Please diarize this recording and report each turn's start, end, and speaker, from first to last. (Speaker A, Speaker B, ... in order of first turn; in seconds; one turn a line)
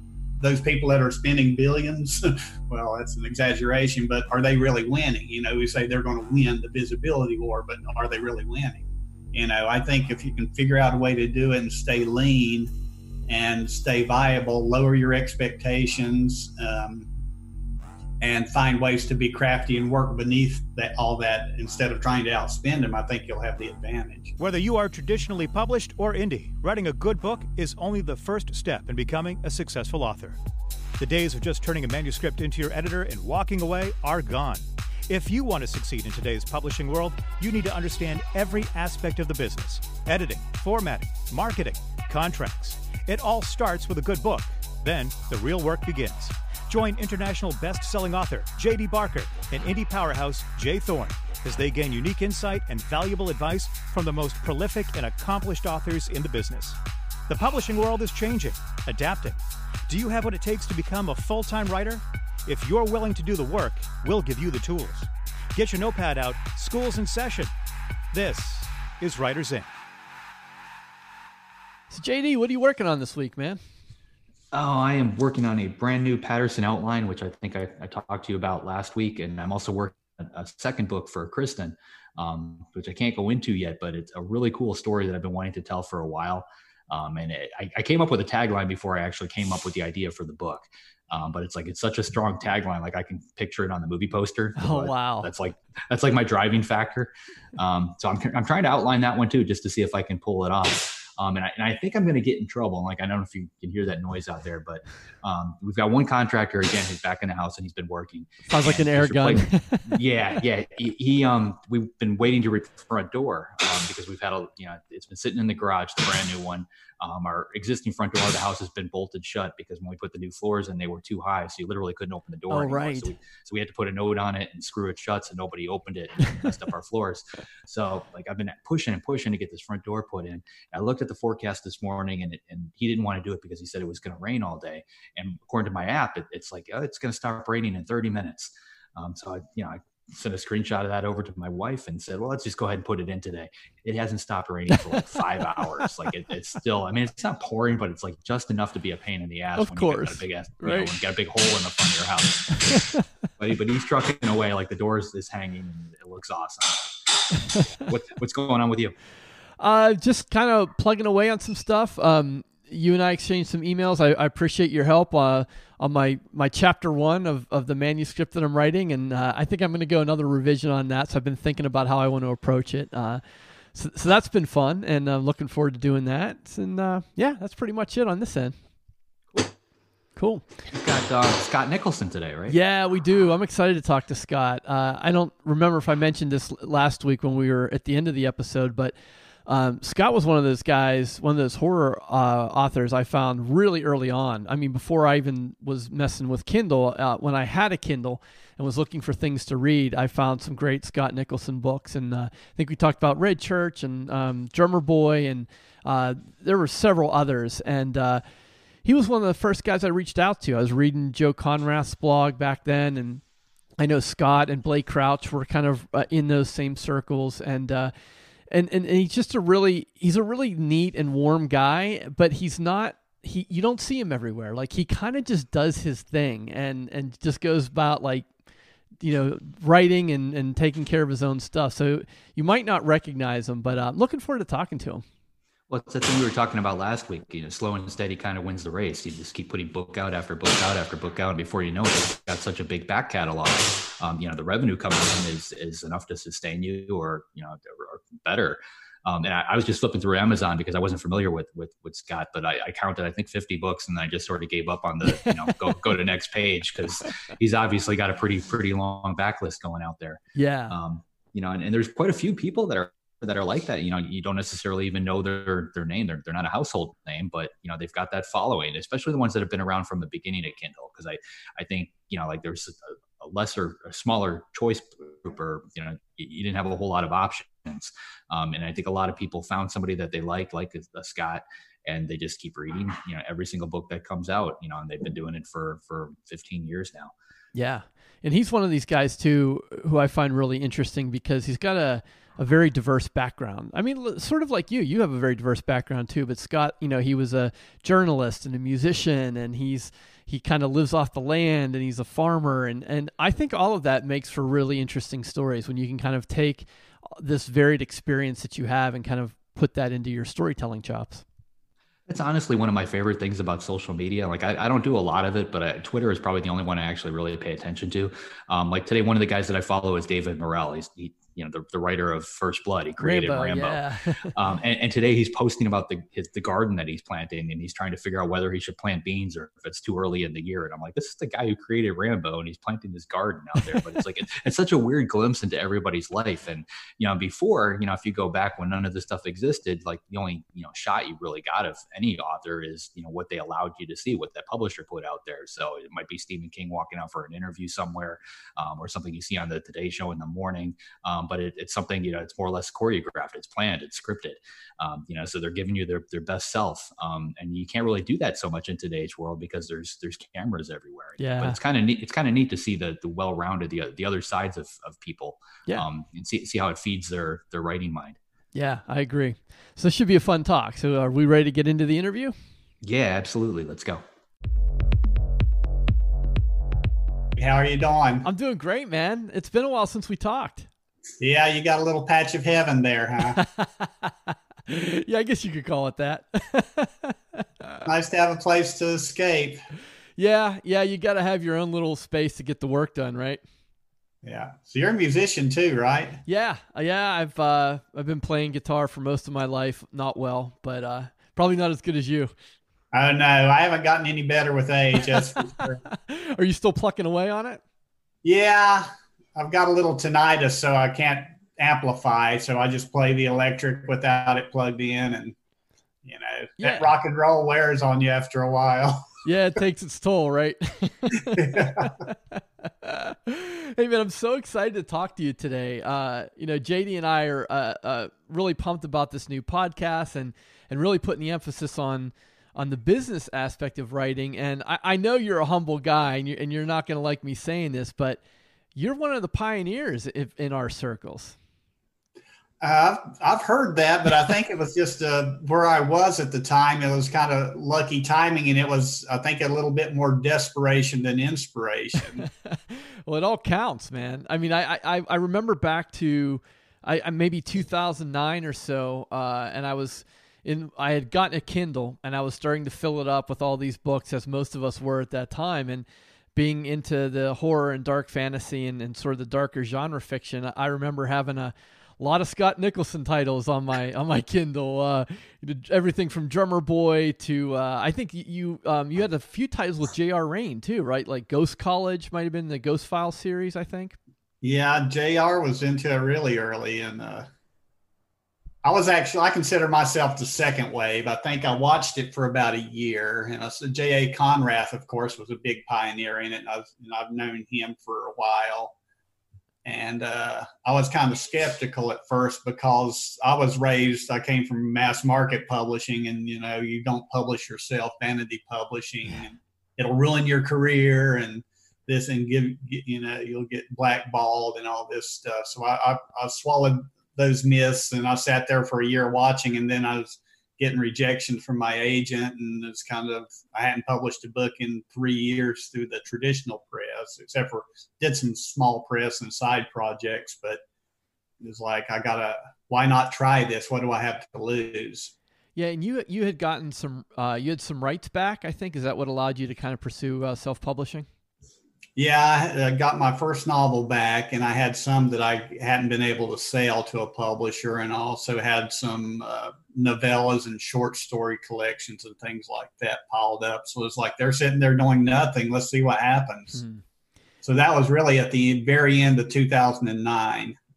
Speaker A: 0.4-12.7
Speaker A: 13.3-17.1
Speaker A: 18.2-24.3
Speaker B: 24.4-30.4
Speaker B: 31.0-67.5
Speaker B: 68.1-69.7
Speaker C: 71.9-73.6
Speaker D: 74.5-152.8
Speaker C: 94.6-95.3
Speaker C: 108.5-110.0
Speaker C: 122.5-123.1
Speaker C: 149.6-150.9
Speaker D: 153.4-157.1
Speaker D: 157.8-158.9
Speaker C: 159.6-173.2
Speaker C: 173.7-178.5
Speaker C: 180.2-180.4
Speaker D: 180.7-182.6
Speaker C: 182.5-208.2
Speaker C: 208.8-213.2
Speaker C: 213.8-217.9
Speaker C: 218.5-228.3
Speaker C: 229.0-235.0
Speaker D: 235.7-287.1
Speaker C: 260.3-260.8
Speaker C: 287.5-311.2
Speaker D: 312.1-368.2
Speaker C: 323.0-324.3
Speaker C: 361.2-361.6
Speaker C: 368.5-372.3
Speaker D: 372.8-374.0
Speaker A: 377.4-378.3
Speaker C: 378.2-380.7
Speaker A: 381.2-383.4
Speaker C: 383.4-387.8
Speaker A: 387.8-389.6
Speaker C: 390.2-393.4
Speaker A: 394.2-396.2
Speaker C: 396.2-402.3
Speaker A: 402.9-405.8
Speaker C: 405.0-407.6
Speaker A: 408.2-415.4
Speaker A: 416.0-419.1
Speaker C: 416.6-416.9
Speaker C: 419.2-438.2
Speaker A: 421.2-421.9
Speaker C: 438.7-441.4
Speaker A: 442.6-452.3
Speaker C: 452.2-484.0
Speaker A: 484.4-487.3
Speaker A: 488.6-498.7
Speaker A: 499.6-530.6
Speaker A: 531.4-535.1
Speaker C: 535.5-541.1
Speaker A: 542.0-556.6
Speaker C: 556.5-556.8
Speaker A: 557.4-560.6